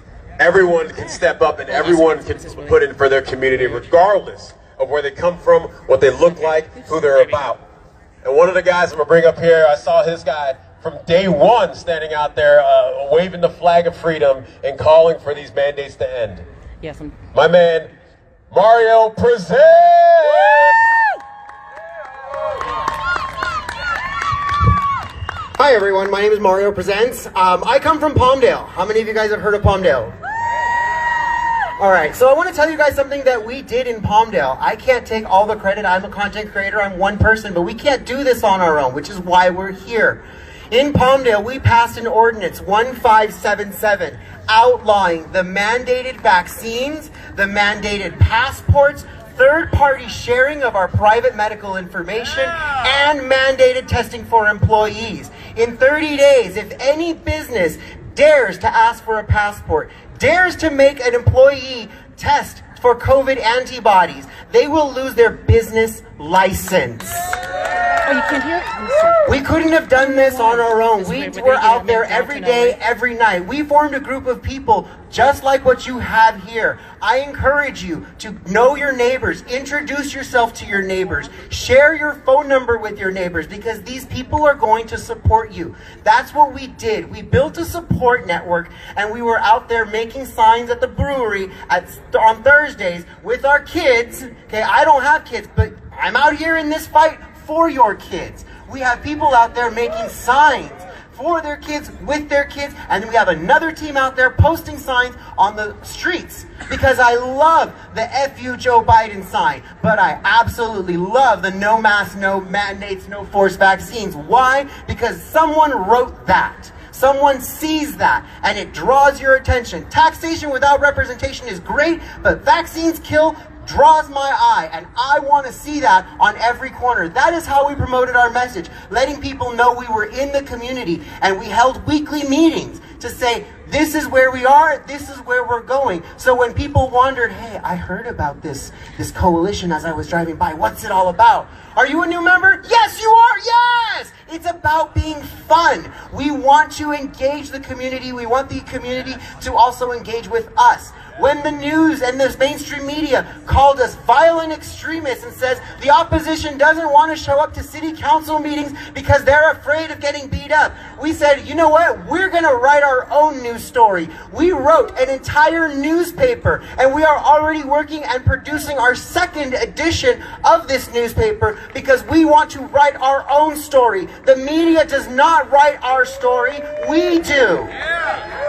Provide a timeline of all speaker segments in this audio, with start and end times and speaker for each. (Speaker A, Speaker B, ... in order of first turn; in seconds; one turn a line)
Speaker A: 0.4-7.6
Speaker B: 1.7-2.8
Speaker A: 8.2-16.4
Speaker B: 16.8-17.1
Speaker A: 17.3-17.9
Speaker A: 18.5-20.8
Speaker C: 25.6-30.1
Speaker C: 31.8-67.4
Speaker B: 68.0-69.3
Speaker C: 69.3-177.7
Speaker B: 70.0-72.8